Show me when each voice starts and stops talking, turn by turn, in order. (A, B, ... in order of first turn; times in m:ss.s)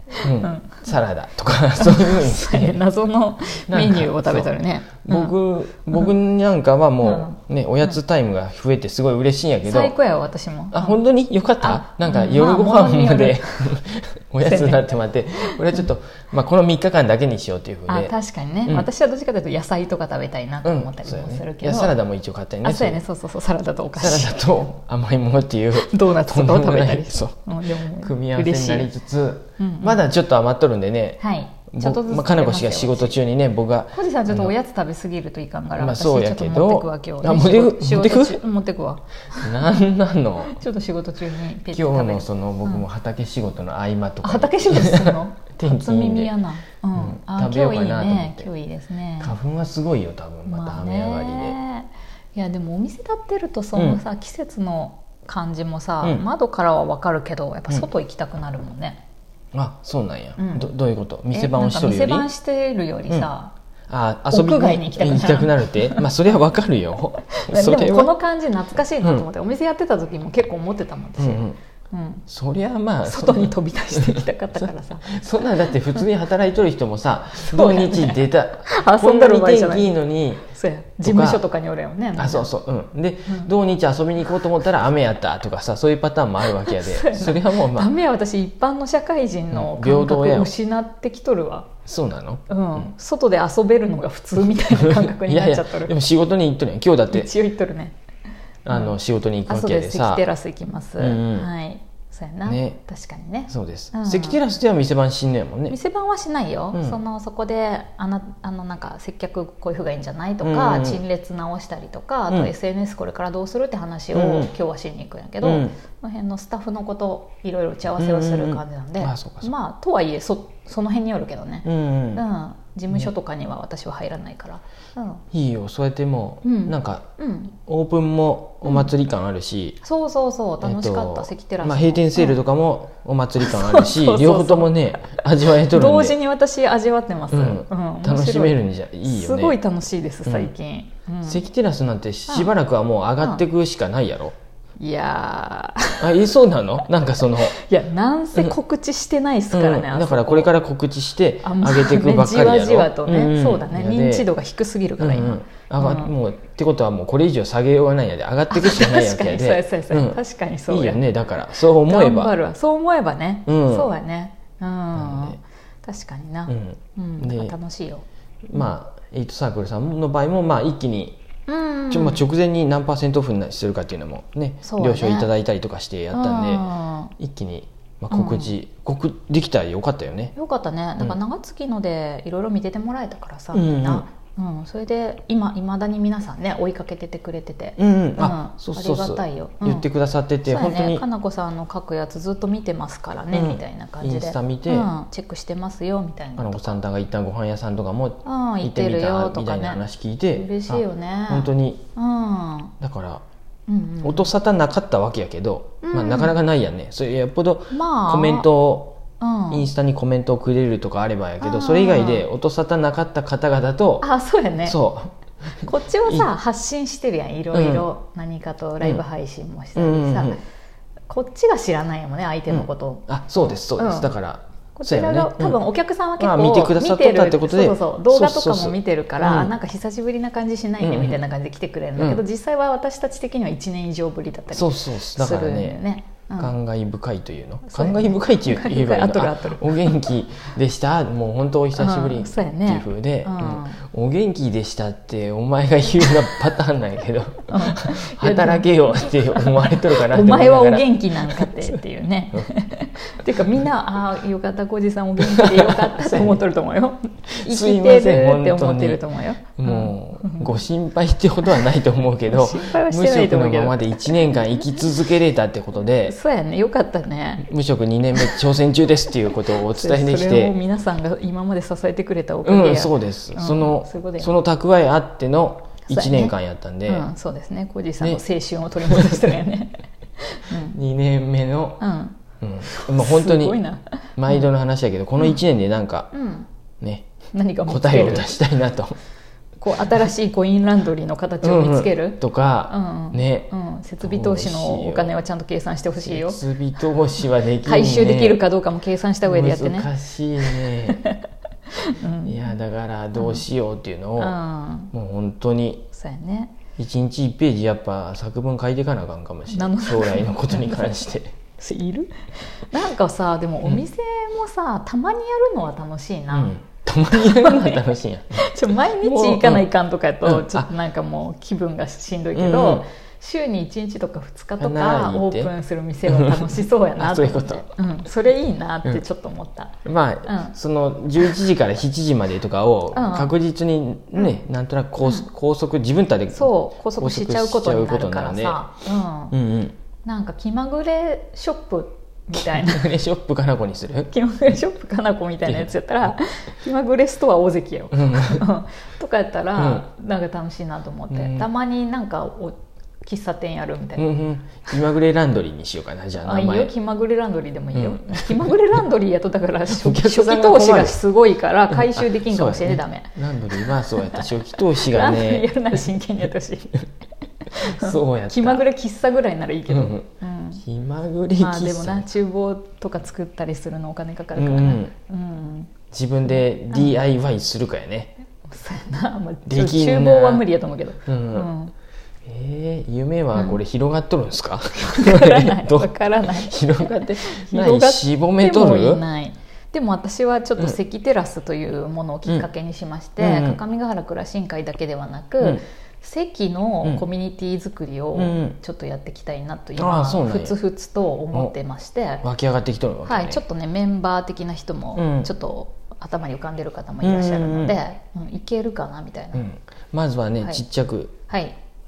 0:00.2-0:02.8 A
0:00.2-0:00.9 B
0:01.8-0:05.3 B
0:03.7-0:10.0 A
0:07.0-0:08.0 B
0:09.6-0:11.0 B
0:10.7-0:18.1 A
0:11.6-0:13.8 B
0:14.4-0:15.8 B
0:17.9-0:22.0 B
0:20.6-0:23.0 A
0:22.6-0:24.5 B
0:24.0-0:31.2 A
0:25.8-0:28.9 B
0:29.6-0:30.0 B
0:31.2-0:33.2 B
0:31.7-0:34.5 A
0:33.9-0:39.6 B
0:35.8-0:38.4 A
0:39.4-0:40.6 A
0:40.5-0:42.8 B
0:41.7-0:46.3 A
0:44.2-0:49.4 B
0:47.0-0:48.5 A
0:49.2-0:51.6 A
0:50.5-0:59.0 B
0:53.8-0:54.0 A
0:59.5-1:02.3 A
1:00.4-1:00.7 B
1:01.3-1:03.5 B
1:03.9-1:08.1 A
1:04.3-1:06.2 B
1:07.3-1:12.2 B
1:11.2-1:11.6 A
1:12.3-1:20.5 A
1:13.0-1:15.2 B
1:15.7-1:16.0 B
1:17.4-1:22.5 B
1:21.0-1:21.4 A
1:22.2-1:27.9 A
1:26.5-1:31.7 B
1:29.5-1:30.5 A
1:31.9-1:32.9 A
1:32.5-1:35.9 B
1:34.7-1:37.3 A
1:37.1-1:38.0 B
1:38.7-1:40.3 A
1:39.5-1:44.4 B
1:41.0-1:41.5 A
1:42.4-1:42.8 A
1:43.5-1:45.8 A
1:45.7-2:05.2 B
1:46.7-1:47.0 A
1:50.4-1:51.0 A
1:54.1-1:54.5 A
1:55.4-1:55.7 A
1:58.0-1:59.5 A
2:01.6-2:02.2 A
2:05.3-2:07.1 A
2:06.4-2:07.5 B
2:07.6-2:09.8 A
2:09.8-2:12.4 B
2:10.6-2:16.2 A
2:13.4-2:21.4 B
2:17.3-2:19.6 A
2:20.3-2:20.5 A
2:21.2-2:24.4 A
2:24.8-2:26.3 B
2:26.0-2:27.6 A
2:27.2-2:30.5 B
2:29.5-2:34.3 A
2:31.4-2:36.1 B
2:35.0-2:42.4 A
2:38.5-2:41.0 B
2:41.8-2:48.0 B
2:43.5-2:43.9 A
2:44.9-2:45.4 A
2:46.5-2:47.6 A
2:48.5-2:51.2 A
2:51.5-2:52.2 B
2:51.9-3:00.3 A
2:54.6-2:55.3 B
2:56.1-2:57.1 B
2:58.1-2:58.5 B
3:00.4-3:09.9 B
3:03.5-3:04.1 A
3:07.8-3:11.0 A
3:10.4-3:16.8 B
3:13.3-3:14.9 A
3:16.4-3:21.8 A
3:18.2-3:19.8 B
3:20.3-3:22.7 B
3:22.8-3:23.2 A
3:23.7-3:24.3 B
3:24.0-3:34.1 A
3:25.8-3:26.4 B
3:27.7-3:28.5 B
3:29.2-3:29.7 B
3:31.4-3:32.3 B
3:34.0-3:34.8 B
3:34.6-3:35.1 A
3:35.6-3:40.4 B
3:37.5-3:37.9 A
3:39.8-3:40.4 A
3:41.1-3:44.1 B
3:42.5-3:45.6 A
3:44.8-3:56.5 B
3:46.2-3:49.5 A
3:50.8-3:51.2 A
3:52.0-3:52.2 A
3:54.5-3:55.8 A
3:56.4-4:11.8 A
3:57.7-4:00.1 B
4:01.8-4:03.8 B
4:07.5-4:20.6 B
4:15.2-4:16.4 A
4:17.3-4:19.0 A
4:19.6-4:26.2 A
4:22.3-4:24.9 B
4:26.0-4:27.5 B
4:27.4-4:30.6 A
4:29.3-4:34.4 B
4:32.4-4:37.1 A
4:35.9-4:36.4 B
4:36.9-4:40.8 B
4:38.8-4:39.4 A
4:40.5-4:41.8 A
4:41.8-4:44.5 B
4:42.4-4:43.6 A
4:44.2-4:46.1 A
4:46.1-4:46.5 B
4:46.8-4:47.1 A
4:47.3-4:48.4 B
4:47.7-4:49.0 A
4:49.6-4:56.4 B
4:51.4-4:55.2 A
4:56.0-4:58.4 A
4:57.6-5:01.2 B
4:59.2-5:01.0 A
5:01.8-5:02.4 B
5:02.2-5:04.4 A
5:03.2-5:03.4 B
5:04.2-5:04.9 B
5:04.9-5:05.9 A
5:05.9-5:06.5 B
5:06.8-5:11.3 A
5:09.5-5:16.6 B
5:16.3-5:19.7 A
5:17.1-5:30.6 B
5:20.2-5:20.7 A
5:22.3-5:22.9 A
5:24.6-5:25.5 A
5:26.0-5:27.6 A
5:29.8-5:38.6 A
5:32.9-5:33.3 B
5:36.3-5:39.3 B
5:39.3-5:39.8 A
5:40.0-5:42.9 B
5:42.4-5:44.1 A
5:44.1-5:54.1 B
5:45.5-5:45.7 A
5:47.9-5:48.4 A
5:49.6-5:49.9 A
5:51.1-5:51.5 A
5:54.0-5:56.7 A
5:56.2-6:06.9 B
5:57.7-5:58.8 A
5:59.7-6:01.0 A
6:01.7-6:05.9 A
6:07.4-6:10.6 B
6:07.7-6:08.6 A
6:09.7-6:10.1 A
6:10.6-6:12.1 A
6:11.4-6:15.7 B
6:14.4-6:14.9 A
6:15.9-6:18.1 A
6:18.5-6:21.7 B
6:19.5-6:20.4 A
6:21.1-6:21.5 A
6:22.2-6:29.0 A
6:23.4-6:23.6 B
6:24.9-6:42.2 B
6:33.2-6:33.6 A
6:38.2-6:38.6 A
6:39.8-6:40.6 A
6:42.2-6:43.4 A
6:43.0-6:49.4 B
6:45.0-6:45.3 A
6:47.0-6:47.8 A
6:49.3-6:51.1 A
6:51.3-6:51.6 B